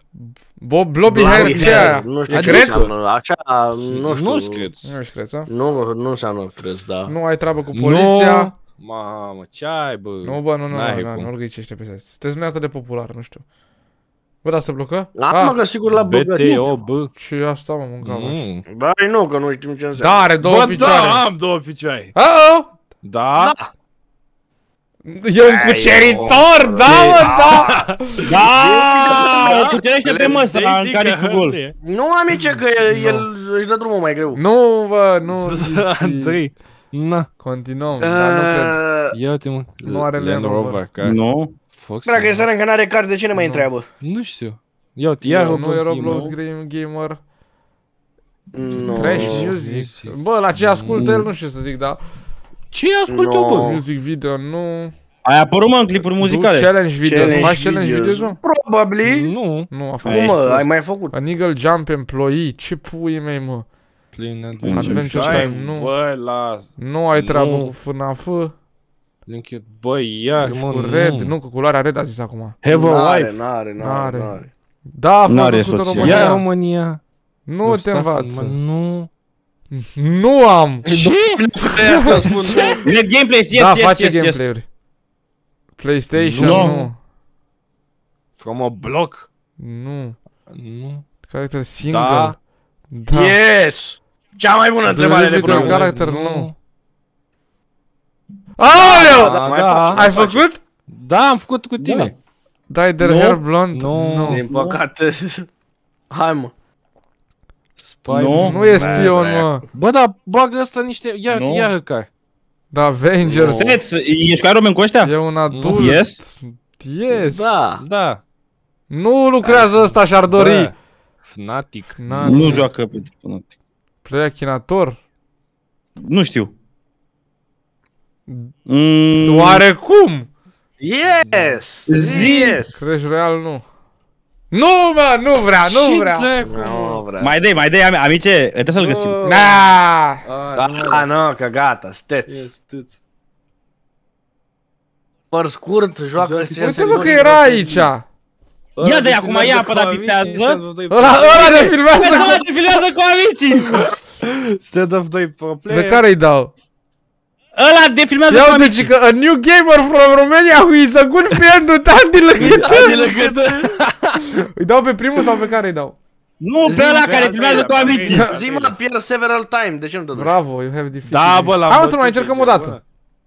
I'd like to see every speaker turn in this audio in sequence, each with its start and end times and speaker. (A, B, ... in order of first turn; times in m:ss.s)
0:00.2-0:02.9 A
0:01.1-0:04.7 B
0:01.1-0:02.9 C
0:03.8-0:04.9 C
0:04.8-0:05.5 A
0:05.5-0:07.1 B
0:07.1-0:08.5 A
0:07.7-0:11.3 C
0:10.2-0:13.4 A
0:14.4-0:15.6 A
0:15.2-0:16.7 B
0:15.9-0:17.1 C
0:17.2-0:18.4 A
0:18.0-0:18.6 C
0:18.7-0:20.3 B
0:20.0-0:21.3 A
0:20.4-0:22.1 C
0:22.2-0:22.7 A
0:23.0-0:23.6 C
0:23.4-0:23.7 B
0:25.0-0:28.3 A
0:25.4-0:27.9 B
0:26.1-0:28.0 C
0:28.3-0:31.6 D
0:28.4-0:30.4 B
0:30.3-0:31.8 C
0:31.8-0:34.4 B
0:32.9-0:33.3 A
0:34.4-0:36.4 A
0:35.3-0:37.3 C
0:37.4-0:38.8 A
0:38.0-0:39.2 B
0:39.1-0:41.2 C
0:39.8-0:40.8 A
0:41.0-0:41.5 D
0:41.7-0:42.5 C
0:42.0-0:43.9 B
0:43.3-0:43.7 A
0:44.0-0:46.4 C
0:45.3-0:47.2 A
0:45.3-0:45.6 B
0:48.5-0:49.5 B
0:48.8-0:51.3 C
0:49.0-0:52.0 A
0:52.7-0:53.8 C
0:53.1-0:53.8 B
0:53.6-0:54.9 A
0:55.2-0:57.5 D
0:56.2-0:58.4 A
0:57.0-0:59.3 B
0:59.0-0:59.7 C
0:59.7-1:03.6 A
1:00.0-1:00.4 D
1:00.0-1:01.2 B
1:04.1-1:07.7 C
1:04.6-1:05.5 D
1:04.7-1:05.9 A
1:06.8-1:08.5 A
1:09.3-1:11.4 C
1:10.4-1:12.6 A
1:12.6-1:13.3 C
1:12.7-1:14.5 B
1:13.8-1:16.4 A
1:15.3-1:16.4 D
1:16.0-1:17.0 C
1:17.5-1:18.5 A
1:17.6-1:19.1 C
1:19.7-1:20.9 A
1:20.9-1:22.8 B
1:20.9-1:22.8 C
1:21.9-1:22.7 A
1:22.8-1:24.5 D
1:23.5-1:24.7 A
1:25.8-1:27.0 A
1:26.2-1:26.9 C
1:26.4-1:26.7 D
1:28.4-1:29.3 C
1:29.6-1:30.2 A
1:30.5-1:31.0 C
1:31.3-1:32.4 A
1:31.9-1:32.4 C
1:32.9-1:33.4 A
1:33.1-1:35.8 B
1:34.9-1:36.5 A
1:35.1-1:36.5 C
1:38.6-1:39.4 A
1:38.7-1:40.4 B
1:38.9-1:40.1 C
1:39.9-1:40.6 A
1:40.9-1:42.1 C
1:41.8-1:42.1 D
1:42.7-1:44.4 A
1:43.0-1:43.4 D
1:43.7-1:44.4 C
1:44.3-1:45.5 B
1:44.4-1:44.8 D
1:46.1-1:46.5 B
1:47.8-1:49.2 C
1:48.1-1:48.8 D
1:48.4-1:49.6 A
1:48.7-1:49.5 B
1:49.7-1:52.1 C
1:51.3-1:51.7 D
1:52.7-1:53.8 A
1:53.2-1:53.8 B
1:53.4-1:55.1 D
1:55.0-1:57.6 A
1:55.5-1:55.8 C
1:55.7-1:56.2 D
1:57.1-1:57.8 B
1:57.8-1:58.2 C
1:58.9-2:00.7 A
1:59.4-1:59.8 B
1:59.7-2:00.7 C
2:01.3-2:02.5 C
2:02.0-2:02.7 A
2:02.1-2:03.5 D
2:04.0-2:05.0 A
2:06.0-2:06.5 D
2:08.3-2:08.5 A
2:08.7-2:09.6 D
2:09.2-2:10.3 A
2:10.8-2:12.8 B
2:11.1-2:11.6 C
2:11.9-2:12.6 D
2:12.8-2:13.6 A
2:14.5-2:16.3 A
2:15.6-2:17.0 C
2:16.4-2:17.4 B
2:17.2-2:19.2 D
2:18.8-2:19.7 C
2:19.2-2:20.2 A
2:20.2-2:21.1 C
2:20.6-2:22.5 B
2:22.3-2:23.0 C
2:25.3-2:27.3 B
2:26.2-2:27.9 C
2:26.6-2:28.0 A
2:28.8-2:32.4 C
2:28.8-2:30.6 D
2:30.9-2:32.4 A
2:31.6-2:33.7 D
2:33.7-2:36.0 C
2:35.7-2:36.5 A
2:37.6-2:38.9 D
2:38.3-2:43.1 A
2:42.4-2:43.7 B
2:42.4-2:44.1 C
2:44.3-2:46.0 A
2:46.4-2:48.2 D
2:46.6-2:50.4 B
2:47.0-2:48.8 C
2:50.1-2:52.8 A
2:51.1-2:52.8 C